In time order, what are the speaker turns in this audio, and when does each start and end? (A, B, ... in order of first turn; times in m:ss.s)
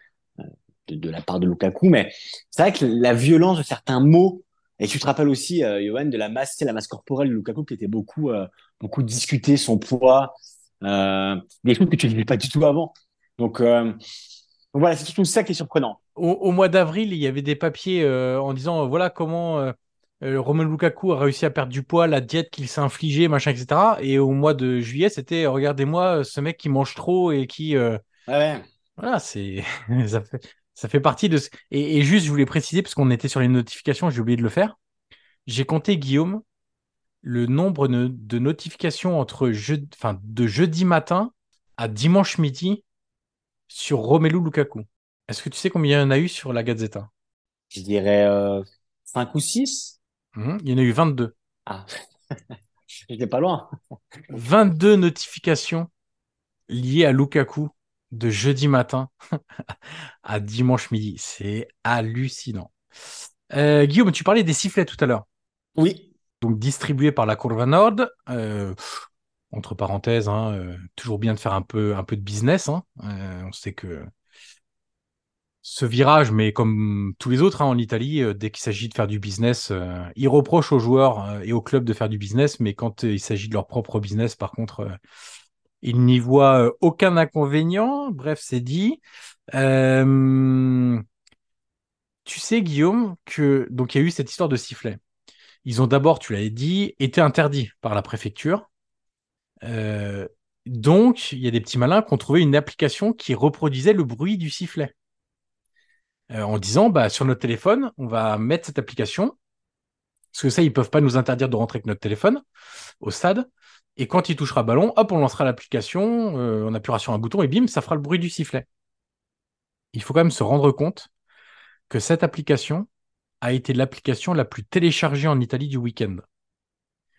0:00.4-0:14.0 A
0:14.7-0:16.0 A
0:16.2-0:28.0 B
0:28.3-0:28.6 A
0:29.0-0:34.8 B
0:35.4-0:36.4 B
0:37.2-0:42.8 B
0:43.7-0:47.1 B
0:47.7-0:50.0 A
0:50.4-0:51.3 B
0:53.1-0:53.7 A
0:54.3-0:55.9 B
0:56.7-0:59.1 B
0:59.7-1:02.7 B
1:03.5-1:05.2 B
1:05.8-1:06.1 A
1:06.4-1:08.8 B
1:09.5-1:14.1 B
1:15.6-1:25.0 B
1:25.8-1:29.0 B
1:29.5-1:31.0 B
1:32.2-1:35.0 B
1:35.6-1:38.7 B
1:39.6-1:44.9 B
1:46.3-1:49.3 B
1:50.3-1:52.4 B
1:53.0-1:58.6 B
1:59.9-2:01.1 B
2:01.9-2:02.9 B
2:03.4-2:06.2 B